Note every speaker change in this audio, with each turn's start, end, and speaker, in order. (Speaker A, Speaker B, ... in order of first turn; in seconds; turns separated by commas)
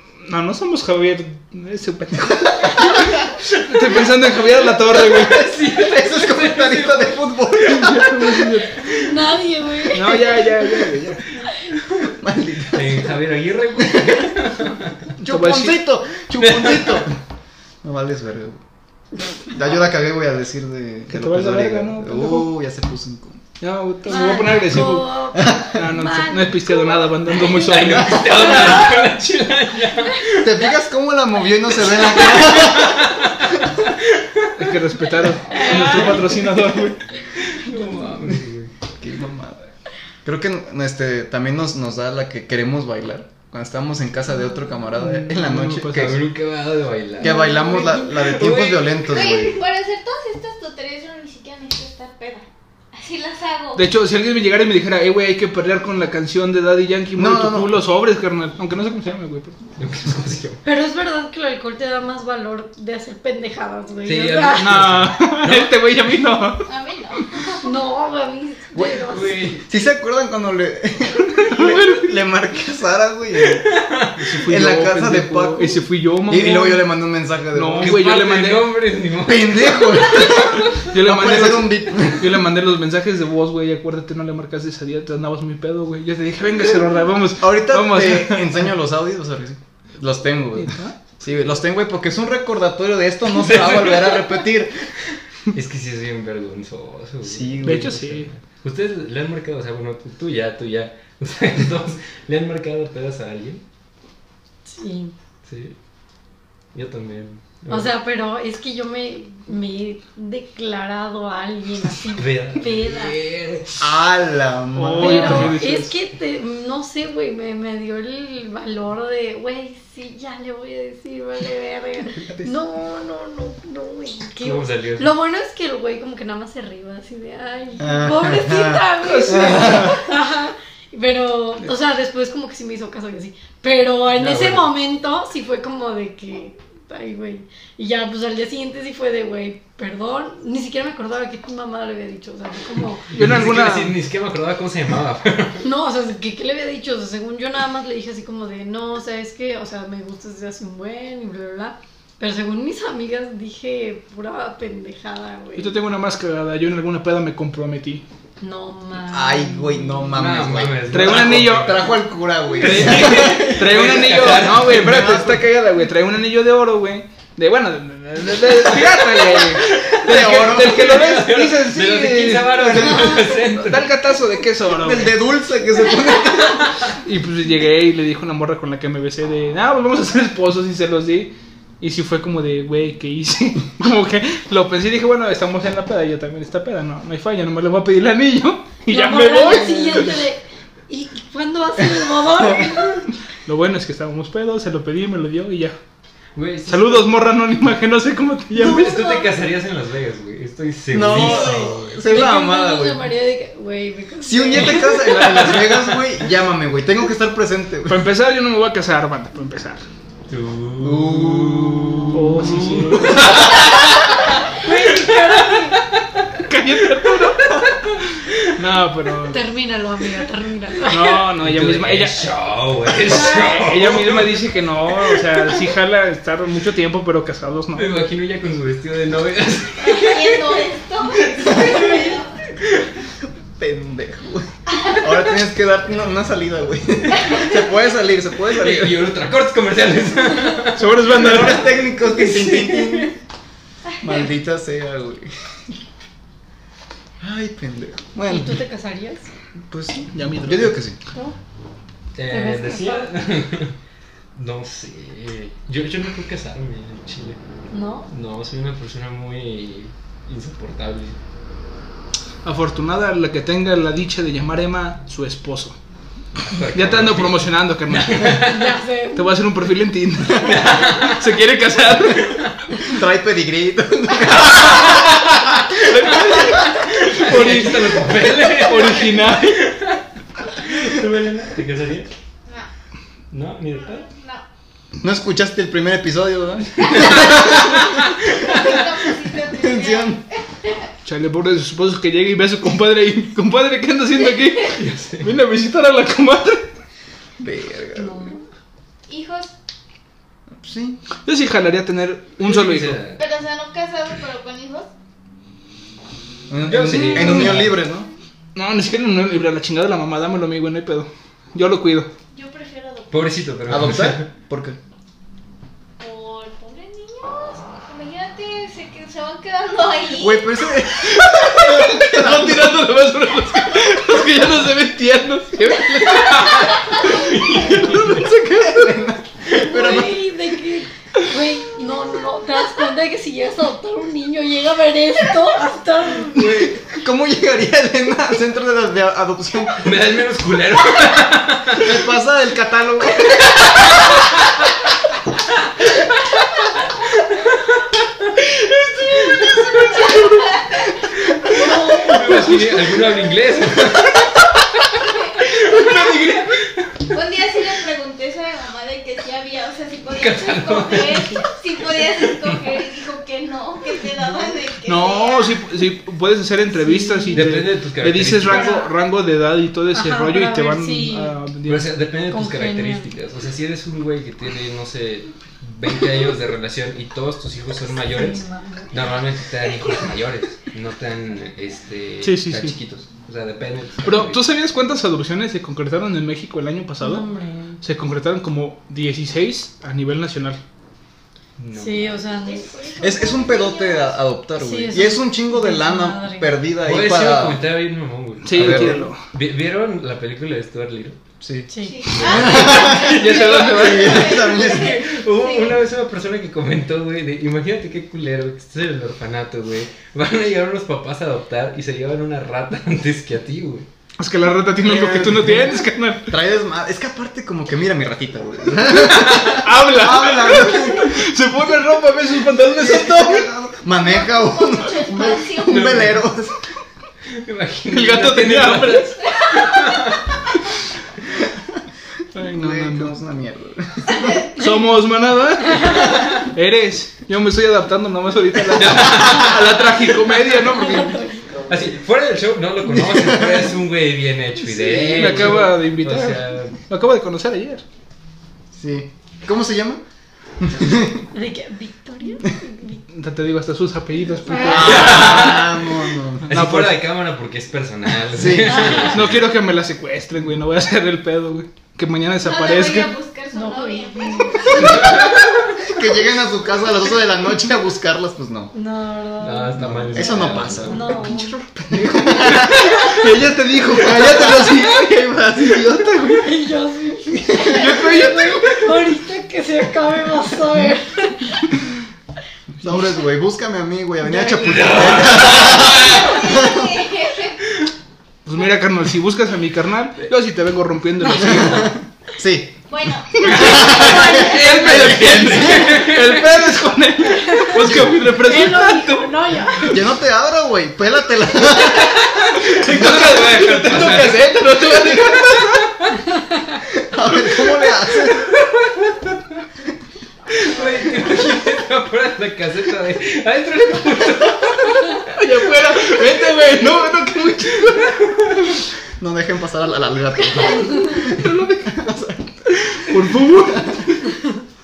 Speaker A: 0.2-5.5, Speaker B: 3.8-4.2, Speaker B: 4.9-7.4, Speaker C: 5.0-8.5, Speaker A: 7.6-8.8, Speaker D: 9.0-10.5, Speaker A: 9.9-11.2, Speaker C: 12.1-13.1, Speaker B: 12.7-15.1, Speaker A: 15.2-15.8, Speaker C: 15.2-17.1, Speaker B: 16.4-17.0, Speaker C: 17.8-18.6, Speaker C: 19.5-23.4, Speaker A: 21.1-22.5, Speaker A: 23.6-28.7, Speaker D: 24.1-29.0, Speaker C: 25.4-25.7, Speaker B: 27.3-30.5, Speaker C: 30.4-33.4, Speaker B: 31.8-34.7, Speaker A: 34.5-37.0, Speaker D: 35.5-36.5, Speaker B: 35.5-36.1, Speaker B: 37.4-38.7, Speaker C: 39.0-39.6, Speaker C: 40.2-46.2, Speaker A: 44.9-46.2, Speaker B: 46.0-49.4, Speaker C: 47.2-49.5, Speaker D: 47.2-48.2, Speaker E: 49.1-53.9, Speaker A: 53.7-59.6, Speaker C: 57.1-57.8, Speaker B: 59.8-60.6, Speaker D: 60.6-64.9, Speaker B: 64.0-65.7, Speaker A: 64.5-66.7, Speaker E: 66.6-67.8, Speaker D: 67.6-69.5, Speaker B: 68.9-69.7, Speaker C: 69.6-73.7, Speaker A: 71.4-72.1, Speaker B: 73.5-74.2, Speaker A: 74.2-76.9, Speaker C: 74.4-78.0, Speaker A: 77.5-78.7, Speaker B: 77.8-80.8, Speaker C: 79.2-82.4, Speaker A: 80.8-88.7, Speaker C: 87.4-94.8, Speaker A: 90.6-90.9, Speaker B: 93.3-94.6, Speaker B: 95.5-103.6, Speaker C: 97.2-98.3, Speaker A: 97.6-98.3, Speaker D: 104.7-105.1, Speaker B: 105.4-105.7, Speaker B: 106.7-107.9, Speaker D: 107.7-113.2, Speaker B: 112.1-113.9, Speaker C: 113.8-115.6, Speaker A: 114.8-115.9, Speaker D: 115.0-143.1, Speaker C: 122.2-122.5, Speaker B: 124.4-125.1, Speaker C: 127.8-129.9, Speaker A: 129.0-130.0, Speaker B: 134.1-134.7, Speaker B: 143.1-145.7, Speaker A: 143.1-143.9, Speaker D: 145.6-155.7, Speaker A: 155.6-158.0, Speaker D: 158.4-160.2, Speaker C: 159.1-163.9, Speaker B: 160.1-162.0, Speaker A: 160.9-161.9, Speaker B: 162.5-165.2, Speaker A: 162.6-175.2, Speaker C: 164.5-165.5, Speaker B: 168.8-173.8, Speaker C: 170.0-171.0, Speaker C: 172.5-173.7, Speaker C: 174.7-176.8, Speaker A: 177.0-190.1, Speaker D: 188.9-193.1, Speaker A: 193.4-195.8, Speaker B: 196.3-197.2, Speaker A: 196.7-199.2, Speaker B: 198.5-201.9, Speaker C: 198.5-199.0, Speaker C: 200.9-203.1, Speaker D: 201.1-205.4, Speaker C: 204.2-208.1, Speaker B: 205.0-206.1, Speaker A: 207.9-209.8, Speaker B: 210.3-215.8, Speaker C: 210.8-213.5, Speaker A: 212.1-213.4, Speaker D: 214.5-215.8, Speaker A: 216.5-217.6, Speaker A: 218.5-219.4, Speaker D: 219.3-221.3, Speaker A: 220.9-222.3, Speaker B: 221.4-225.7, Speaker A: 223.0-228.0, Speaker B: 227.7-230.6, Speaker E: 229.8-232.4, Speaker B: 231.2-232.9, Speaker C: 233.6-239.1, Speaker B: 238.5-243.1, Speaker A: 240.7-241.7, Speaker C: 241.1-243.1, Speaker C: 244.0-245.3, Speaker C: 247.2-248.6, Speaker D: 248.2-249.3, Speaker C: 249.7-251.0, Speaker A: 250.1-250.8, Speaker B: 252.1-253.8, Speaker D: 252.3-253.1, Speaker B: 254.3-257.4, Speaker D: 257.7-258.1, Speaker B: 258.1-261.1, Speaker A: 262.4-265.8, Speaker B: 266.5-268.8, Speaker A: 266.7-268.6, Speaker D: 268.3-269.5, Speaker A: 269.1-272.4, Speaker B: 270.3-271.4, Speaker B: 272.1-272.6, Speaker C: 272.8-275.3, Speaker A: 274.4-279.6, Speaker B: 274.6-280.0, Speaker B: 280.5-282.1, Speaker B: 283.3-284.1, Speaker E: 283.7-284.4, Speaker C: 285.0-287.9, Speaker B: 286.8-288.6, Speaker E: 286.9-287.5, Speaker E: 288.4-290.9, Speaker C: 289.5-290.2, Speaker A: 291.0-296.7, Speaker B: 294.8-295.3, Speaker C: 297.4-298.3, Speaker D: 297.9-298.4, Speaker E: 299.1-299.5, Speaker C: 300.5-301.0, Speaker A: 301.2-303.0, Speaker B: 302.4-303.2, Speaker E: 303.1-304.9, Speaker C: 306.5-308.1, Speaker B: 306.6-307.8, Speaker A: 307.1-307.7, Speaker A: 308.5-312.1, Speaker E: 312.3-313.4, Speaker B: 313.1-314.3, Speaker C: 313.7-314.8, Speaker E: 316.0-320.5, Speaker C: 320.1-322.8, Speaker A: 321.1-326.8, Speaker B: 326.1-328.3, Speaker E: 326.4-327.1, Speaker C: 327.5-330.2, Speaker D: 329.5-336.6, Speaker C: 336.3-339.9, Speaker B: 339.8-342.0, Speaker C: 341.8-343.5, Speaker E: 348.8-352.4, Speaker D: 351.6-352.1, Speaker B: 352.1-354.3, Speaker A: 352.3-352.8, Speaker E: 355.0-365.7, Speaker A: 355.7-356.4, Speaker B: 360.1-361.4, Speaker B: 362.0-362.7, Speaker A: 364.9-371.9, Speaker D: 366.7-367.4, Speaker B: 367.3-368.8, Speaker D: 368.4-368.9, Speaker D: 369.9-371.3, Speaker B: 371.6-384.4, Speaker D: 372.3-373.1, Speaker D: 377.9-379.1, Speaker A: 382.2-382.7, Speaker A: 384.0-387.3, Speaker D: 387.0-387.8, Speaker A: 387.8-390.6, Speaker B: 391.6-392.2, Speaker D: 391.7-392.9, Speaker E: 392.4-394.1, Speaker C: 393.0-397.6, Speaker D: 394.6-396.6, Speaker B: 396.8-401.2, Speaker A: 398.4-399.2, Speaker C: 398.5-399.1, Speaker C: 401.4-405.0, Speaker D: 401.7-402.2, Speaker E: 401.8-405.8, Speaker B: 402.1-413.9, Speaker A: 403.0-404.2, Speaker A: 414.2-416.4, Speaker C: 414.8-421.2, Speaker A: 419.1-423.5, Speaker C: 422.7-426.5, Speaker E: 424.2-426.0, Speaker B: 425.7-426.2, Speaker B: 427.3-430.4, Speaker A: 427.9-429.1, Speaker E: 429.2-430.1, Speaker A: 432.3-433.1, Speaker C: 432.4-434.4, Speaker E: 434.1-434.5, Speaker A: 434.5-441.2, Speaker D: 435.6-436.0, Speaker B: 438.7-440.0, Speaker D: 440.5-442.0, Speaker B: 441.7-446.8, Speaker C: 442.9-443.7, Speaker C: 444.8-445.6, Speaker A: 444.9-447.8, Speaker C: 448.7-450.0, Speaker C: 450.6-451.3, Speaker D: 451.3-453.0, Speaker A: 453.1-455.6, Speaker D: 454.4-455.2, Speaker C: 454.6-456.6, Speaker B: 454.7-455.9, Speaker A: 456.5-456.9, Speaker B: 456.5-459.4, Speaker C: 458.3-459.3, Speaker D: 458.7-459.1, Speaker A: 458.8-463.1, Speaker E: 462.4-465.5, Speaker D: 463.5-465.2, Speaker B: 464.8-465.4, Speaker C: 465.8-468.7, Speaker D: 468.7-471.6, Speaker B: 469.4-471.2, Speaker C: 469.8-476.4, Speaker A: 472.0-475.0, Speaker A: 476.0-476.4, Speaker D: 476.3-481.6, Speaker C: 477.5-477.8, Speaker A: 477.5-478.9, Speaker C: 482.8-486.8, Speaker B: 484.6-486.4, Speaker E: 485.7-487.7, Speaker A: 488.4-491.9, Speaker C: 491.4-492.8, Speaker E: 492.9-495.1, Speaker B: 493.4-496.6, Speaker C: 493.4-495.6, Speaker A: 494.0-500.0, Speaker D: 497.4-497.8, Speaker C: 497.8-498.6, Speaker D: 498.4-499.9, Speaker C: 499.8-502.3, Speaker B: 501.9-506.1, Speaker A: 502.3-506.0, Speaker C: 504.0-505.2, Speaker C: 506.9-508.5, Speaker B: 508.2-509.4, Speaker B: 510.5-517.0, Speaker A: 515.4-518.3, Speaker B: 517.9-518.7, Speaker C: 519.2-524.0, Speaker A: 523.1-524.0